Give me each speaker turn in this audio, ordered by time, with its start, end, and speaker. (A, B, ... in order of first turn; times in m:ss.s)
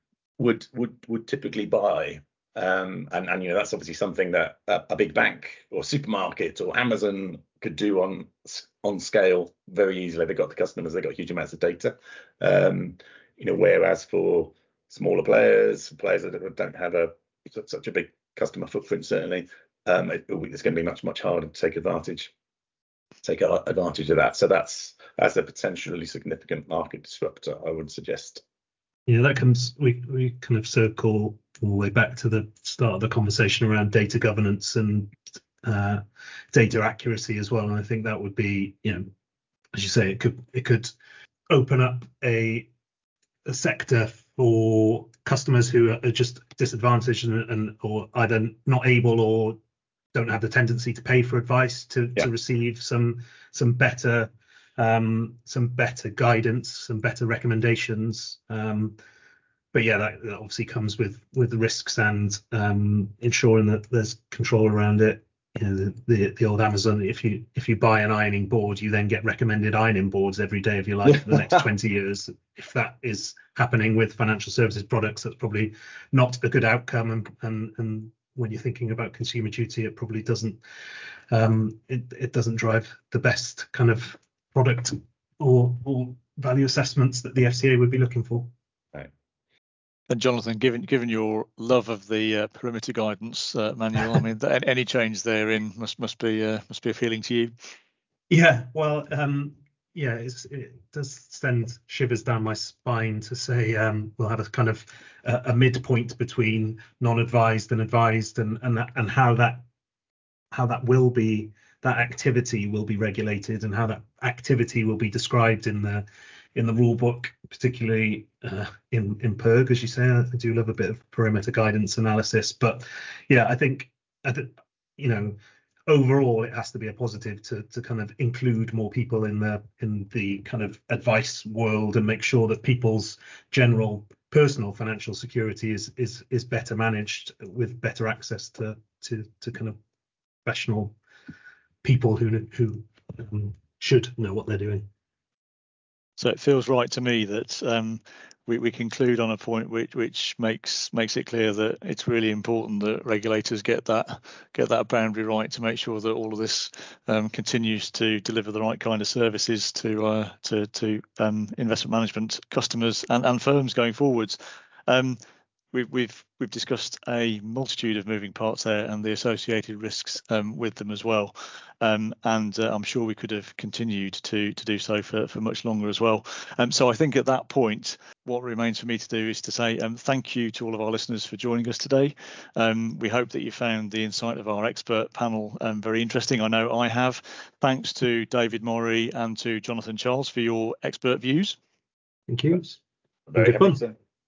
0:00.4-0:22.3 A
0:23.2-0:28.4 A
0:29.1-0:39.1 B
0:39.7-0:40.9 B
0:41.5-0:42.7 B
0:43.4-0:49.6 B
0:50.1-0:59.0 B
0:59.7-1:20.6 B
1:21.3-1:28.5 B
1:30.1-1:37.5 C
1:38.3-1:49.6 B
1:50.5-2:19.8 B
2:20.4-2:21.0 B
2:21.8-2:24.9 B
2:26.2-2:45.2 C
2:45.7-3:11.6 C
3:12.3-3:12.8 B
3:13.3-3:14.0 A
3:13.4-3:13.8 B